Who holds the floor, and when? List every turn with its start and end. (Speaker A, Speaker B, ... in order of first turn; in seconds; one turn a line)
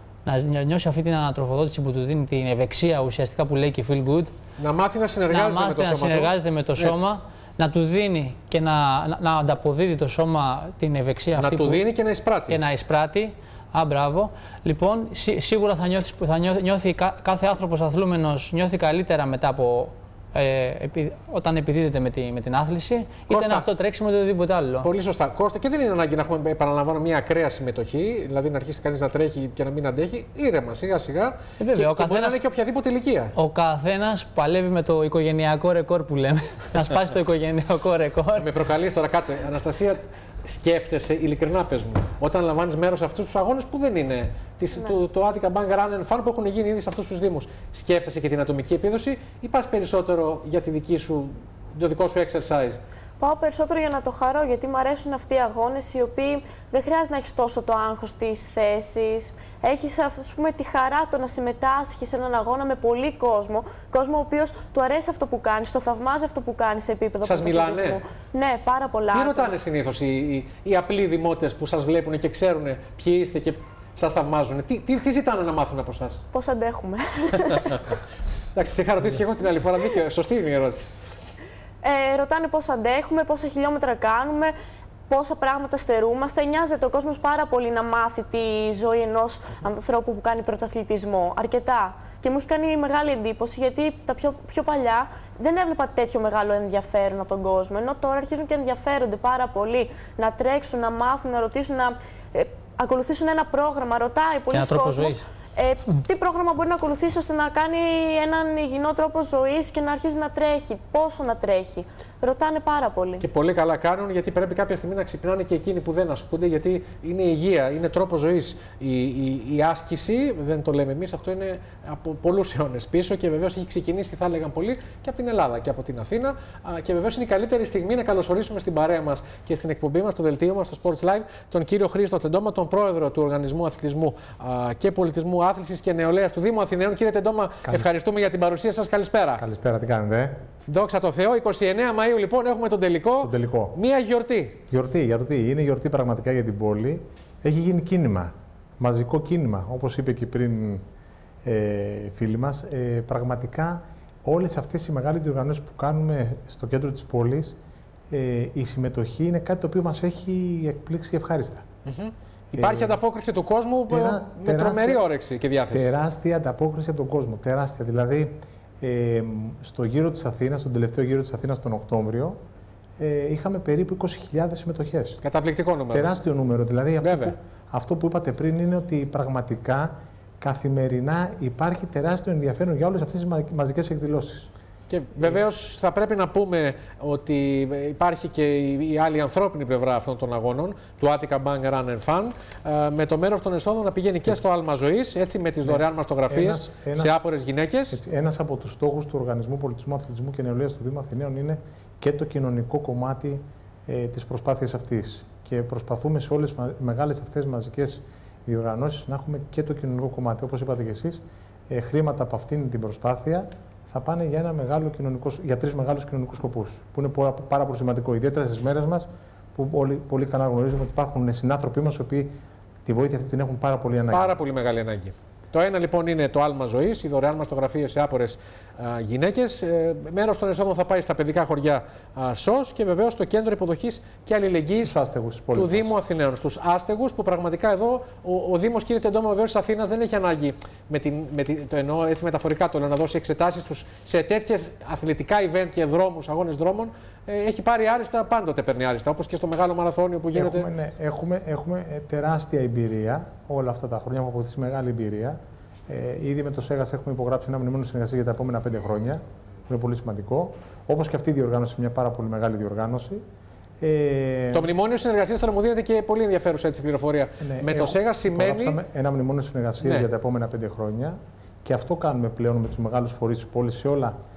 Speaker A: 0.2-4.3
Speaker B: 4.6-7.1
Speaker A: 5.3-11.8
Speaker B: 11.4-12.6
Speaker A: 12.5-24.9
Speaker B: 23.3-23.6
Speaker B: 24.8-33.3
Speaker A: 31.6-32.4
Speaker A: 33.4-38.5
Speaker B: 38.4-52.8
Speaker C: 53.2-69.5
Speaker B: 67.2-68.0
Speaker B: 69.1-76.2
Speaker C: 76.3-77.9
Speaker B: 78.5-80.9
Speaker C: 81.8-84.5
Speaker C: 85.1-113.2
Speaker A: 104.5-105.2
Speaker B: 113.2-139.4
Speaker D: 139.4-140.4
Speaker B: 140.6-144.6
Speaker D: 143.2-143.8
Speaker D: 144.7-150.8
Speaker D: 151.4-157.6
Speaker D: 158.1-161.7
Speaker B: 161.9-165.9
Speaker D: 162.5-163.0
Speaker D: 163.9-165.1
Speaker D: 165.7-172.4
Speaker D: 173.0-175.2
Speaker B: 175.2-176.1
Speaker D: 175.9-184.5
Speaker B: 177.0-177.3
Speaker B: 184.9-198.0
Speaker D: 195.7-197.1
Speaker D: 197.9-222.3
Speaker D: 222.9-224.3
Speaker B: 224.1-234.9
Speaker D: 234.8-235.9
Speaker B: 235.5-250.7
Speaker D: 250.3-263.2
Speaker D: 263.8-264.7
Speaker B: 264.5-268.8
Speaker D: 267.4-274.2
Speaker B: 269.8-270.1